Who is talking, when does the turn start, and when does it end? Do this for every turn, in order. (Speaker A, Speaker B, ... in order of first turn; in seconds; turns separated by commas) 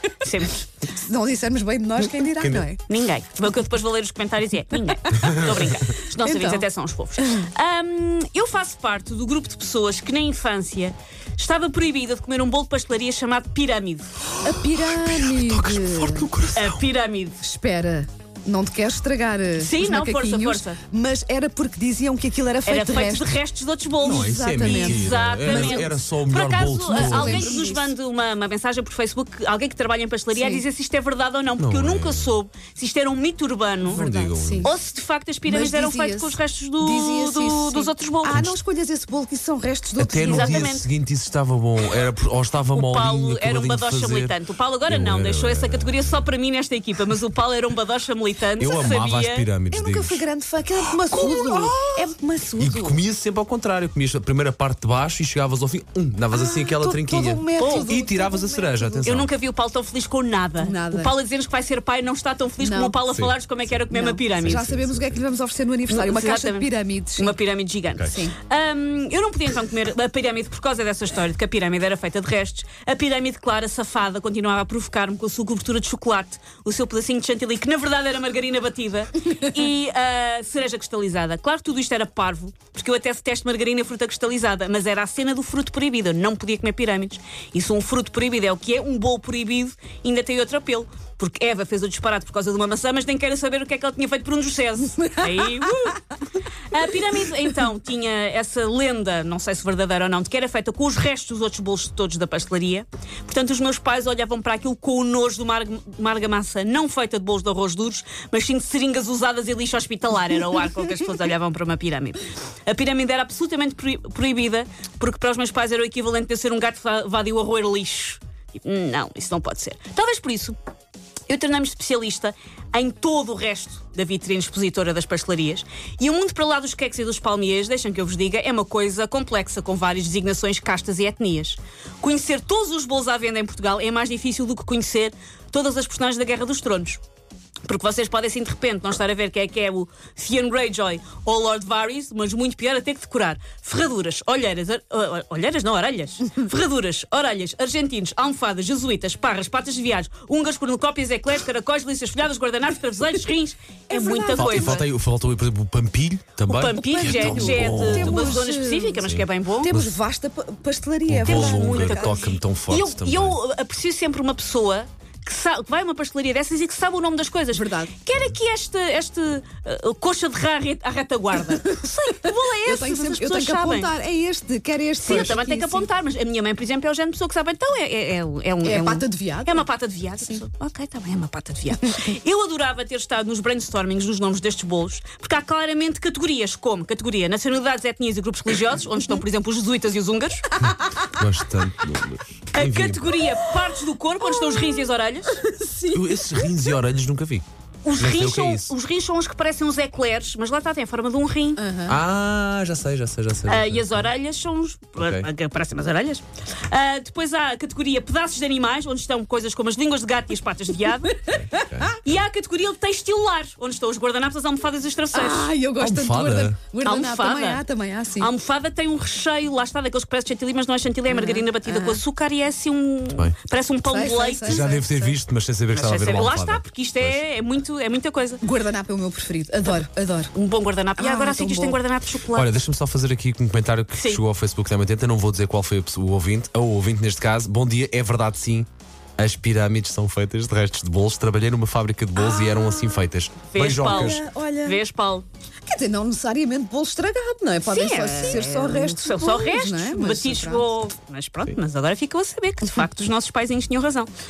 Speaker A: 0.2-0.6, Speaker B: 0.9-2.8, Speaker C: 2.4-2.7, Speaker A: 2.9-14.1, Speaker C: 5.2-5.6, Speaker B: 6.2-6.7, Speaker B: 7.2-7.4, Speaker B: 14.4-16.3, Speaker C: 14.4-16.8, Speaker A: 16.6-17.4, Speaker B: 17.4-23.3, Speaker A: 19.6-20.8, Speaker A: 22.6-38.5, Speaker B: 24.0-25.9, Speaker C: 24.0-27.6, Speaker B: 26.9-27.9, Speaker B: 30.3-30.6, Speaker C: 31.6-32.3, Speaker C: 33.8-34.7, Speaker B: 34.4-34.7, Speaker B: 35.5-40.7, Speaker C: 40.0-46.3, Speaker A: 40.2-40.9, Speaker A: 42.7-49.5, Speaker C: 48.6-50.2, Speaker B: 49.7-53.0, Speaker A: 51.1-51.8, Speaker C: 52.6-59.3, Speaker B: 56.3-59.2, Speaker A: 57.6-57.9, Speaker A: 59.0-64.7, Speaker B: 60.6-61.1, Speaker B: 62.6-63.0, Speaker C: 63.1-65.2, Speaker B: 63.9-67.3, Speaker A: 65.9-96.1, Speaker C: 67.9-68.2, Speaker B: 68.1-68.3, Speaker A: 96.7-120.6, Speaker A: 121.3-137.0, Speaker A: 137.6-154.8, Speaker B: 153.9-154.8, Speaker C: 154.3-158.3, Speaker A: 156.5-159.8, Speaker B: 156.8-159.0, Speaker C: 159.0-159.9, Speaker B: 159.6-162.3, Speaker C: 161.1-163.4, Speaker A: 161.2-173.9, Speaker B: 167.5-167.9, Speaker B: 171.6-175.9, Speaker A: 175.0-190.5, Speaker B: 178.6-180.4, Speaker C: 190.6-193.2, Speaker A: 192.5-195.4, Speaker B: 194.4-194.7, Speaker B: 195.5-196.7, Speaker C: 195.9-197.4, Speaker A: 197.8-201.6, Speaker C: 198.0-198.7, Speaker B: 201.6-202.0, Speaker C: 201.9-204.1, Speaker A: 203.5-211.4, Speaker C: 205.0-205.3, Speaker C: 211.3-212.0, Speaker A: 212.0-215.5, Speaker B: 215.1-218.3, Speaker C: 215.8-216.6, Speaker A: 216.8-217.6, Speaker A: 218.2-224.8, Speaker B: 221.1-222.0, Speaker B: 223.8-225.2, Speaker C: 224.4-227.2, Speaker A: 225.7-228.4, Speaker B: 228.4-230.3, Speaker A: 230.3-232.5, Speaker B: 231.0-231.8, Speaker C: 232.3-244.2, Speaker B: 242.2-243.0, Speaker A: 243.5-245.2, Speaker B: 243.7-244.8, Speaker B: 245.7-250.7, Speaker A: 247.7-254.1